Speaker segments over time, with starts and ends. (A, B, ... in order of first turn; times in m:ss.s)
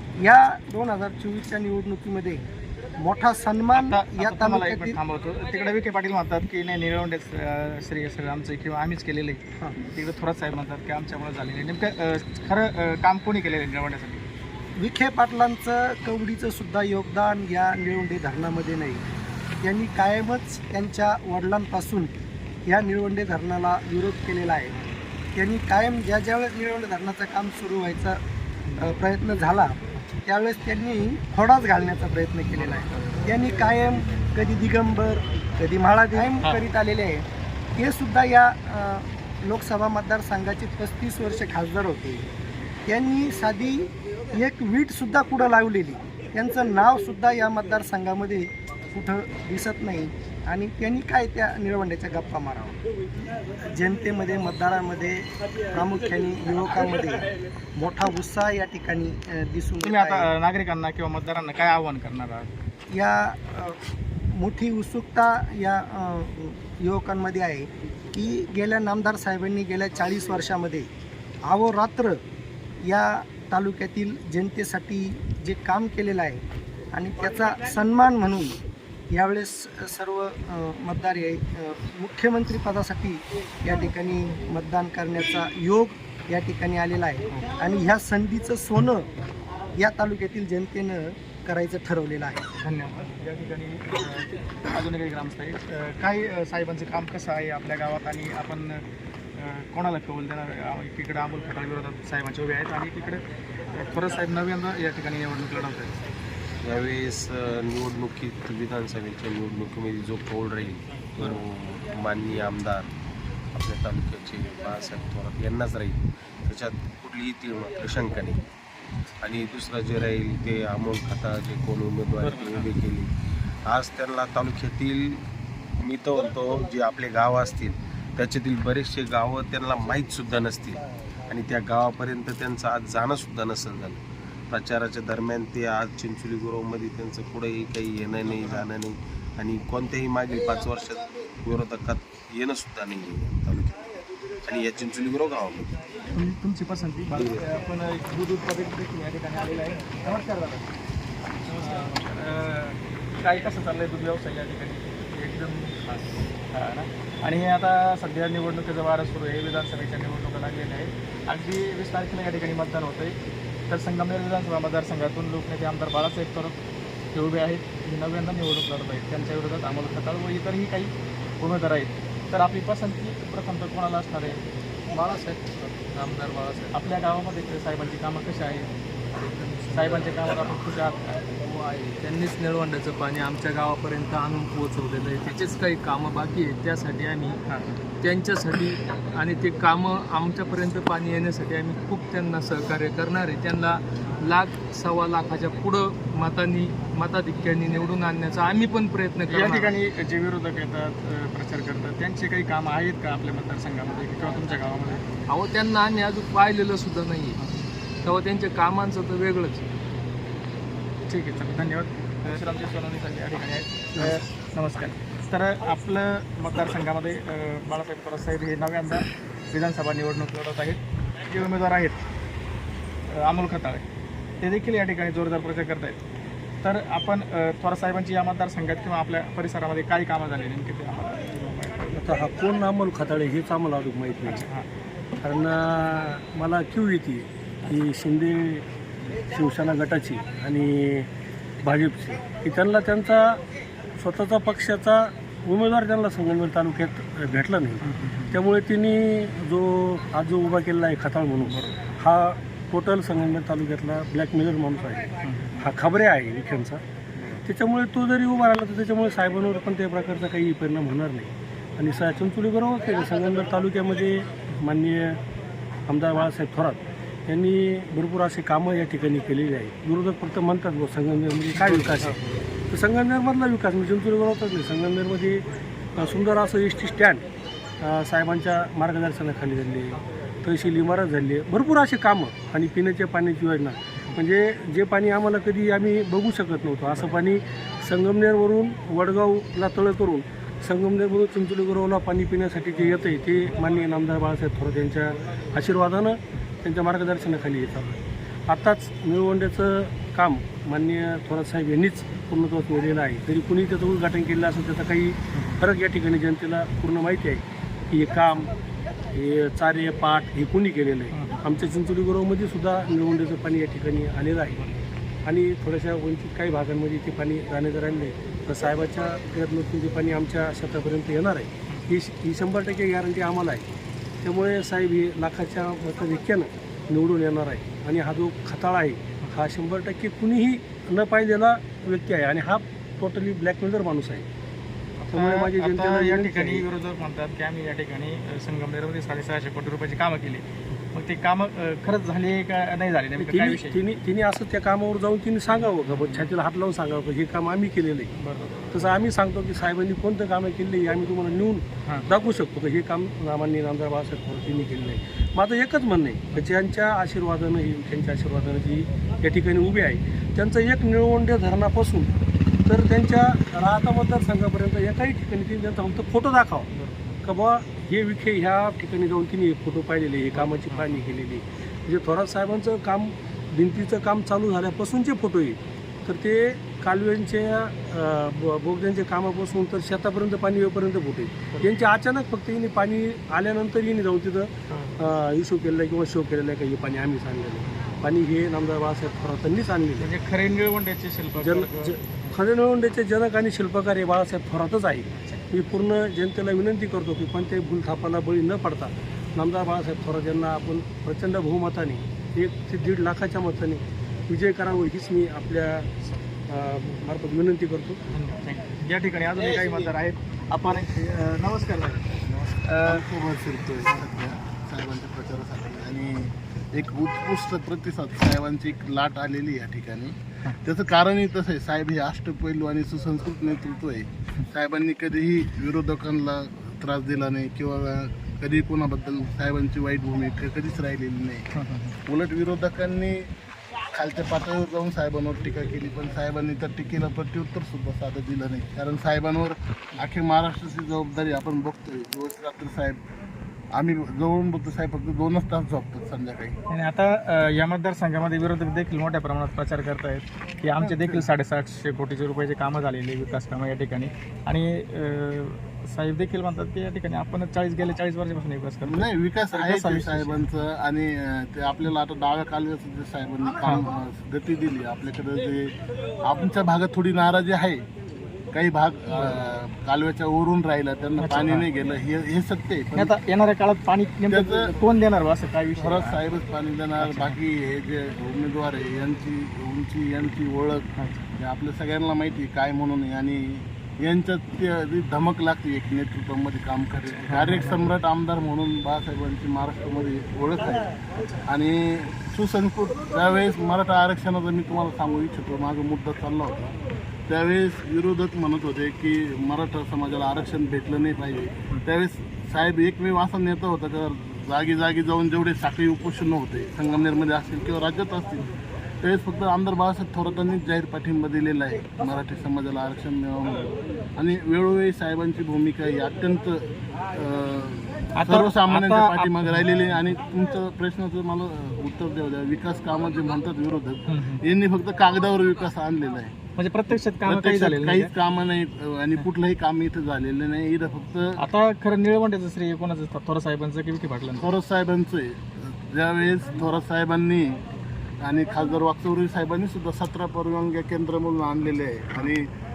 0:00.2-0:02.5 A
0:03.0-0:05.0 A
0:03.7-0:14.2 B
0:14.8-0:19.0 A
0:19.6-0:22.1 A
0:22.7-0:24.8 A
0:25.4-0:28.2 A
0:28.7-0:29.0 B
0:28.8-0:37.2 A
0:32.6-0:33.2 B
0:37.8-0:42.2 A
0:42.9-0:52.8 A
0:53.6-1:00.3 A
0:59.8-1:02.5 B
1:02.9-1:03.8 A
1:04.3-1:10.9 A
1:11.4-1:12.2 A
1:12.8-1:16.4 A
1:16.9-1:18.6 A
1:19.1-1:29.1 A
1:29.8-1:32.4 A
1:32.6-1:38.8 B
1:39.4-1:43.2 B
1:43.7-1:46.0 B
1:46.6-1:52.9 C
1:53.5-1:58.4 C
1:59.2-2:03.1 C
2:02.2-2:02.7 B
2:03.7-2:05.2 C
2:05.8-2:14.0 C
2:14.5-2:23.9 C
2:18.4-2:18.6 B
2:24.4-2:25.7 C
2:26.1-2:30.6 B
2:27.1-2:27.4 C
2:31.5-2:35.8 B
2:36.5-2:43.2 B
2:43.7-2:46.6 B
2:47.1-2:54.4 B
2:54.9-2:56.8 D
2:56.7-2:58.7 B
2:59.2-3:00.5 D
2:59.7-3:01.3 B
3:01.4-3:07.4 D
3:08.0-3:19.7 D
3:19.3-3:25.0 B
3:25.3-3:27.4 D
3:28.0-3:29.7 D
3:31.1-3:42.0 B
3:43.1-3:43.8 B
3:44.4-3:46.0 B
3:46.6-3:51.8 B
3:51.9-3:54.4 E
3:54.3-3:54.6 B
3:55.2-3:58.6 E
3:59.3-4:01.1 E
4:01.6-4:03.4 E
4:04.0-4:15.1 E
4:07.8-4:08.4 B
4:15.2-4:15.6 B
4:15.6-4:16.8 E
4:17.4-4:25.2 E
4:25.9-4:32.2 E
4:31.6-4:32.2 B
4:32.7-4:35.4 E
4:36.0-4:37.2 E
4:37.8-5:08.5 E
5:09.1-5:14.7 E
5:11.1-5:11.4 B
5:15.3-5:23.7 E
5:24.2-5:34.2 E
5:35.0-5:43.8 B
5:35.1-5:36.6 E
5:43.2-5:48.1 E
5:45.9-5:46.3 B
5:48.2-5:48.8 B
5:48.7-6:02.1 E
6:02.7-6:06.7 E
6:06.7-6:07.2 B
6:07.2-6:30.1 E
6:10.4-6:10.9 B
6:24.7-6:25.0 B
6:30.0-6:32.4 B
6:31.4-6:45.9 E
6:46.5-6:48.0 E
6:48.1-6:53.0 B
6:52.8-7:11.5 F
7:11.5-7:12.0 B
7:12.0-7:13.3 F
7:13.9-7:23.0 F
7:23.7-7:26.6 F
7:26.7-7:40.4 B
7:30.8-7:31.2 F
7:38.8-7:47.8 F
7:48.5-7:53.1 F
7:51.2-7:51.6 B
7:53.0-7:56.2 B
7:54.3-7:54.8 F
7:55.8-8:10.9 F
7:57.0-7:57.4 B
8:01.0-8:01.2 B
8:07.2-8:07.9 B
8:11.4-8:16.8 F
8:17.3-8:46.4 F
8:38.2-8:39.6 B
8:44.1-8:44.4 B
8:46.6-8:48.1 B
8:47.2-8:51.4 F
8:51.4-8:54.4 B
8:54.4-8:57.6 F
8:58.2-9:02.5 F